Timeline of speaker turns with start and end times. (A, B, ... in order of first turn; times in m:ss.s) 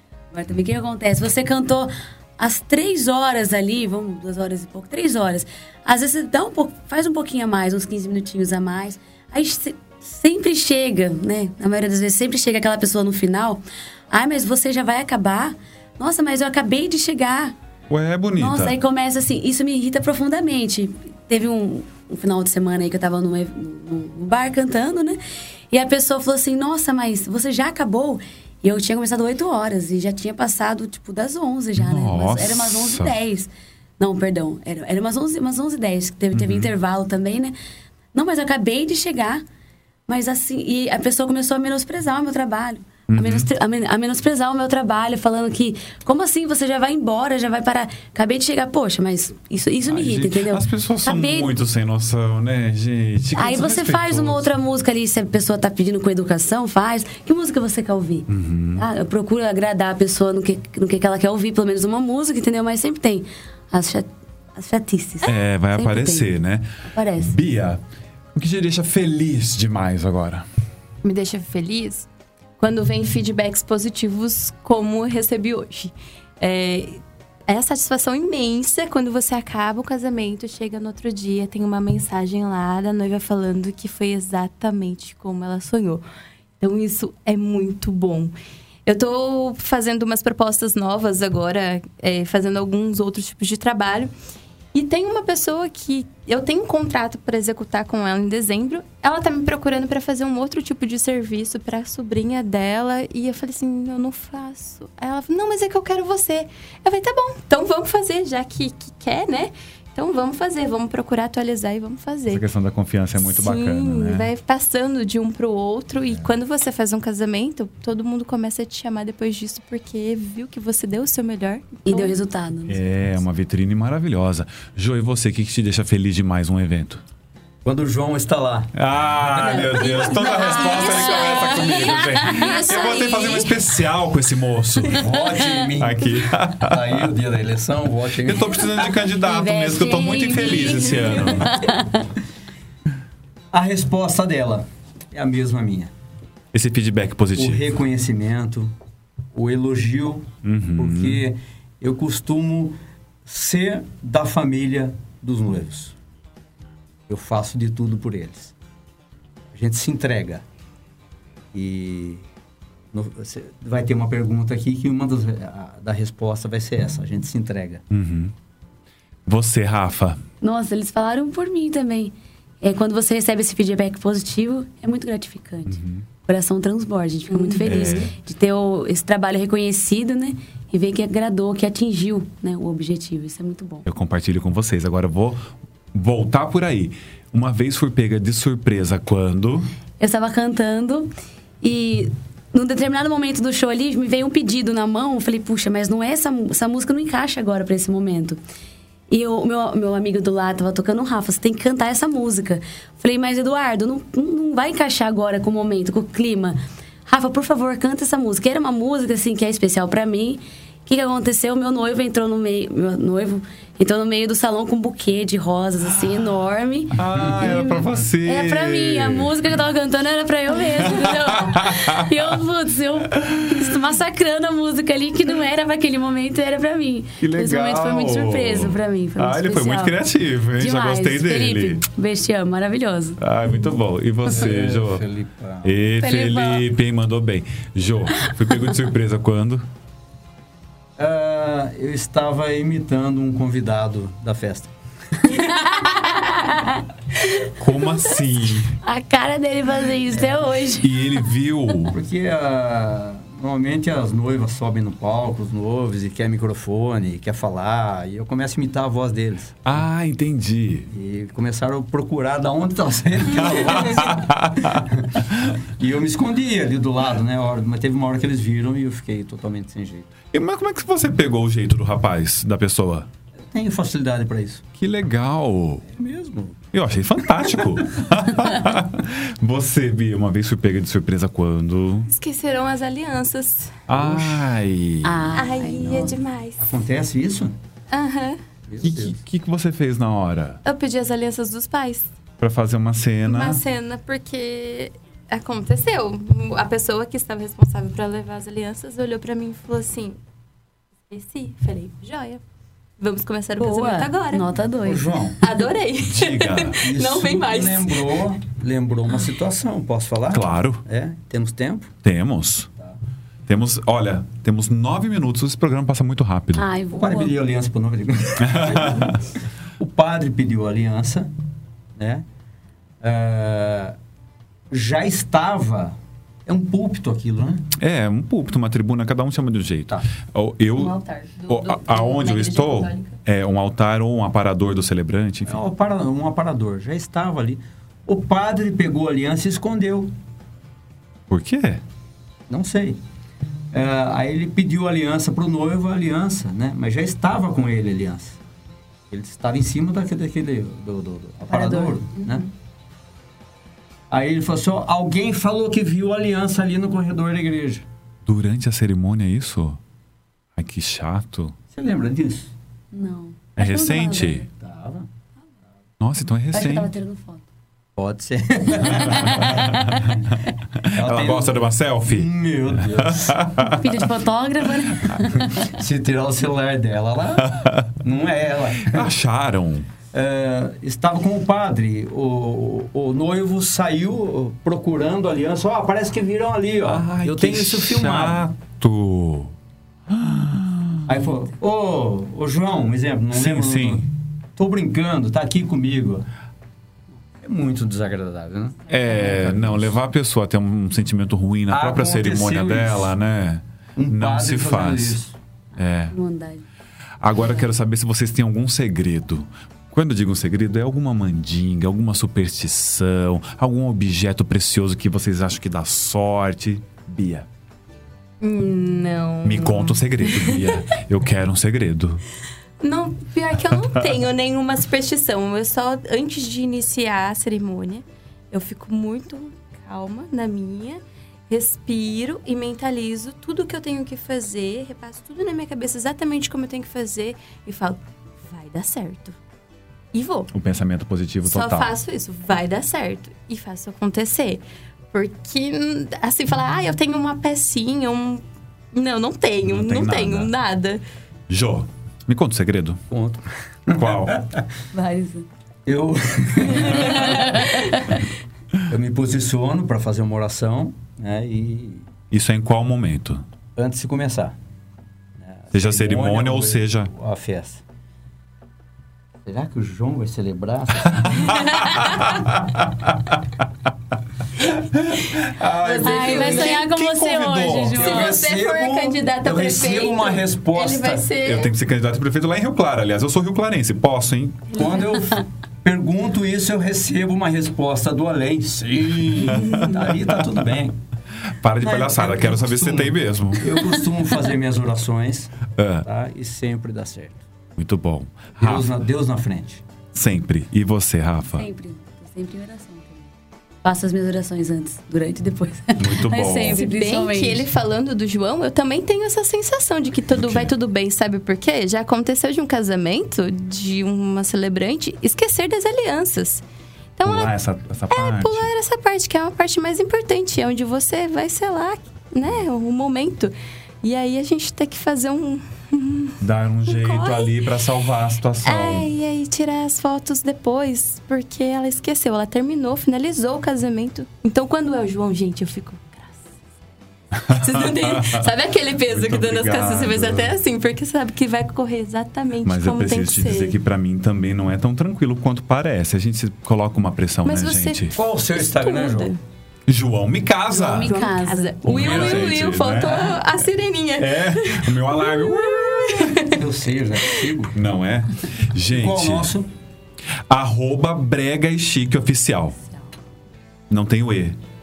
0:00.3-0:17.5 A
0:17.9-0:18.8 B
0:18.4-0:25.2 A
0:25.7-0:37.5 A
0:31.8-0:33.1 B
0:36.3-0:36.7 B
0:38.1-0:39.4 A
0:40.1-0:51.5 A
0:43.1-0:43.5 B
0:49.8-0:54.5 B
0:53.3-1:06.3 A
0:58.3-0:58.8 B
1:05.2-1:06.7 B
1:06.9-1:07.4 A
1:07.2-1:07.8 B
1:08.3-1:10.4 B
1:11.0-1:12.1 C
1:12.6-1:26.0 C
1:26.6-1:28.3 C
1:28.8-1:34.1 C
1:34.7-1:52.4 C
1:52.3-1:54.3 B
1:53.2-2:02.1 C
2:01.8-2:03.1 A
2:02.7-2:07.0 B
2:07.6-2:08.7 D
2:08.7-2:17.1 B
2:09.4-2:13.6 C
2:10.7-2:13.2 A
2:14.9-2:18.7 D
2:18.1-2:21.7 B
2:19.1-2:22.1 A
2:23.5-2:25.9 D
2:26.5-2:27.7 B
2:27.4-2:28.7 D
2:29.3-2:35.9 D
2:30.4-2:31.2 B
2:37.1-2:38.5 D
2:39.5-2:40.4 D
2:41.5-2:42.2 D
2:42.9-2:47.8 D
2:47.9-2:48.3 B
2:49.2-2:50.2 B
2:50.4-3:03.8 A
2:55.7-2:56.0 B
2:57.6-2:58.1 B
3:03.8-3:09.7 B
3:10.0-3:18.4 A
3:19.1-3:50.0 A
3:36.9-3:39.4 B
3:40.6-3:42.4 B
3:43.2-3:43.7 B
3:47.2-3:51.8 B
3:50.6-3:53.2 A
3:53.2-3:55.0 B
3:54.3-3:55.8 D
3:55.6-3:59.6 B
3:56.0-3:56.6 C
4:01.0-4:04.7 D
4:05.4-4:06.8 A
4:07.5-4:08.8 B
4:08.8-4:10.9 A
4:10.8-4:12.0 B
4:11.9-4:19.6 D
4:19.6-4:20.9 B
4:20.9-4:30.1 D
4:23.4-4:24.8 B
4:30.3-4:33.1 B
4:33.5-4:34.6 D
4:34.8-4:35.9 B
4:35.9-4:36.6 D
4:36.7-4:42.1 B
4:42.1-4:43.8 C
4:43.9-4:45.4 B
4:43.9-4:44.4 D
4:45.0-4:46.2 A
4:45.3-4:46.7 C
4:46.6-4:47.5 D
4:47.9-4:48.4 C
4:48.7-4:49.2 D
4:48.8-4:50.6 B
4:50.6-4:52.1 C
4:52.4-4:53.6 B
4:53.2-5:00.2 C
5:01.1-5:02.4 C
5:03.0-5:04.5 C
5:03.6-5:05.3 A
5:04.8-5:05.4 D
5:05.4-5:08.2 C
5:06.0-5:06.8 B
5:06.8-5:11.9 D
5:10.3-5:10.8 B
5:12.0-5:12.7 B
5:13.5-5:16.7 B
5:16.5-5:17.3 A
5:17.0-5:19.2 D
5:18.4-5:19.2 B
5:19.8-5:21.3 D
5:22.0-5:22.2 D
5:23.0-5:23.9 D
5:24.7-5:27.6 D
5:27.8-5:35.6 B
5:30.8-5:33.1 C
5:35.4-5:40.1 D
5:41.3-5:41.8 B
5:42.5-5:43.0 D
5:43.7-5:48.4 D
5:49.1-5:52.4 D
5:51.5-5:52.5 A
5:54.1-5:57.8 D
5:58.2-5:59.8 B
6:00.6-6:01.6 B
6:01.7-6:02.5 D
6:02.9-6:04.4 A
6:03.6-6:04.4 B
6:04.5-6:05.1 D
6:06.0-6:06.9 B
6:06.5-6:07.4 A
6:08.0-6:10.2 D
6:09.0-6:10.2 B
6:09.1-6:09.8 A
6:10.8-6:14.1 B
6:10.9-6:13.4 D
6:13.6-6:15.6 A
6:14.9-6:15.2 B
6:15.6-6:19.1 D
6:17.4-6:17.9 B
6:18.8-6:19.9 B
6:20.1-6:28.5 D
6:26.8-6:29.5 B
6:30.1-6:31.1 B
6:31.0-6:36.2 D
6:33.3-6:34.0 B
6:37.4-6:39.9 D
6:38.9-6:45.2 B
6:41.7-6:43.1 D
6:44.0-6:45.4 D
6:45.8-6:46.1 B
6:46.1-6:46.6 A
6:47.2-6:57.5 B
6:58.4-7:00.8 C
6:59.4-7:02.2 B
7:02.8-7:19.4 C
7:20.1-7:20.5 C
7:20.5-7:21.9 B
7:21.4-7:31.0 C
7:29.6-7:30.5 B
7:31.5-7:33.0 B
7:33.1-7:34.6 D
7:33.9-7:34.4 B
7:34.9-7:35.5 A
7:35.8-7:37.7 D
7:37.4-7:38.1 A
7:38.9-7:42.1 D
7:42.3-7:43.4 B
7:43.8-7:44.6 D
7:45.4-7:47.8 D
7:45.7-7:47.1 B
7:49.4-7:52.0 D
7:51.6-7:53.3 B
7:54.9-7:58.0 B
7:55.8-7:56.8 D
7:55.8-7:56.8 C
7:56.0-7:58.3 A
7:57.9-8:01.3 D
7:58.0-8:01.7 C
8:01.4-8:04.8 B
8:04.7-8:11.0 D
8:04.8-8:05.0 C
8:09.5-8:10.0 B
8:11.5-8:13.9 B
8:11.8-8:15.5 D
8:15.7-8:16.0 B
8:16.0-8:17.4 D
8:17.8-8:18.9 B
8:18.6-8:19.8 D
8:20.1-8:21.6 B
8:21.5-8:23.3 A
8:23.8-8:27.6 A
8:26.0-8:26.8 B
8:26.5-8:36.6 C
8:30.3-8:30.7 B
8:37.2-8:37.5 C
8:37.2-8:38.7 B
8:38.1-8:47.6 C
8:46.4-8:49.1 B
8:48.6-8:56.4 C
8:57.3-8:58.5 B
8:57.5-9:03.8 C
8:59.1-9:00.5 B
9:02.6-9:08.2 B
9:07.4-9:09.4 C
9:08.2-9:09.3 D
9:09.9-9:11.2 B
9:10.7-9:12.4 A
9:11.0-9:16.6 C
9:11.8-9:13.5 B
9:14.2-9:16.4 B
9:16.4-9:17.8 D
9:17.7-9:19.5 B
9:18.9-9:19.7 D
9:20.5-9:22.8 B
9:23.9-9:24.6 B